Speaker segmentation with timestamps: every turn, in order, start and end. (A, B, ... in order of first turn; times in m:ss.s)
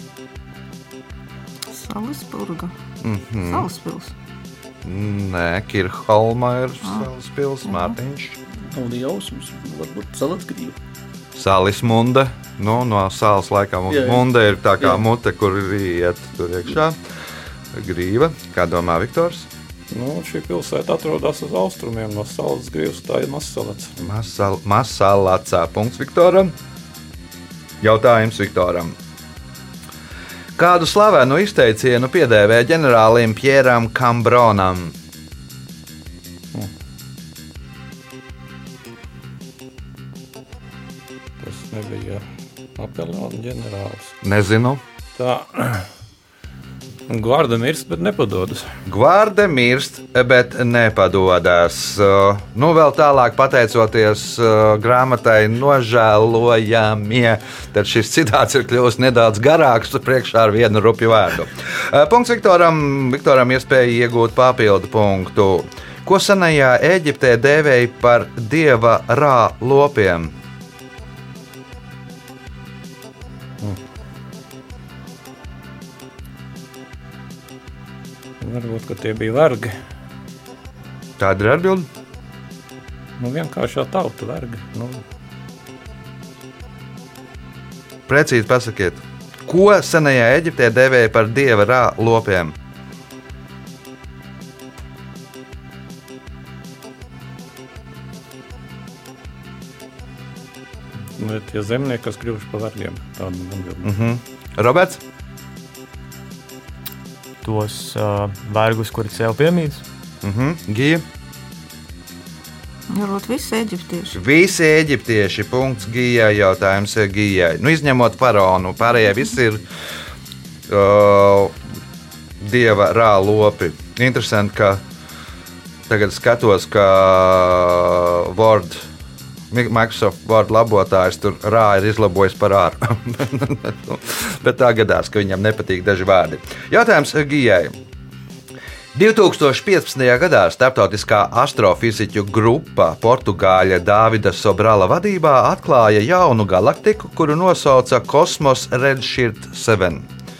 0:01.7-0:02.7 A
0:03.0-0:03.7 B
0:03.4-0:04.1 A
0:04.8-0:08.4 B
0:07.6-0:08.0 A
0:08.7-0:10.8 C
0:11.4-0:17.0 B
0:13.9-0:14.2 C
0:17.7-0:19.5 B
0:19.9-0:23.9 D
0:24.0-0:26.5 B
0:27.8-0:29.0 B
0:30.6-0:34.9 B
0:41.4-0:42.2 D
0:42.8-0:44.2 D
0:44.2-0:44.8 B
0:45.2-0:45.9 D
0:47.1-0:48.7 D
0:48.8-1:10.3 B
1:18.4-1:19.7 D
1:21.2-1:21.9 B
1:23.2-1:25.0 D
1:28.1-1:32.6 B
1:41.2-1:44.0 D
1:43.8-1:45.0 B
1:47.4-1:49.8 E
1:50.2-1:51.0 B
1:52.9-1:54.2 A
1:54.1-1:59.6 B
2:00.7-2:01.6 B
2:02.4-2:04.8 B
2:05.9-2:08.8 B
2:09.5-2:17.7 B
2:18.9-2:30.1 B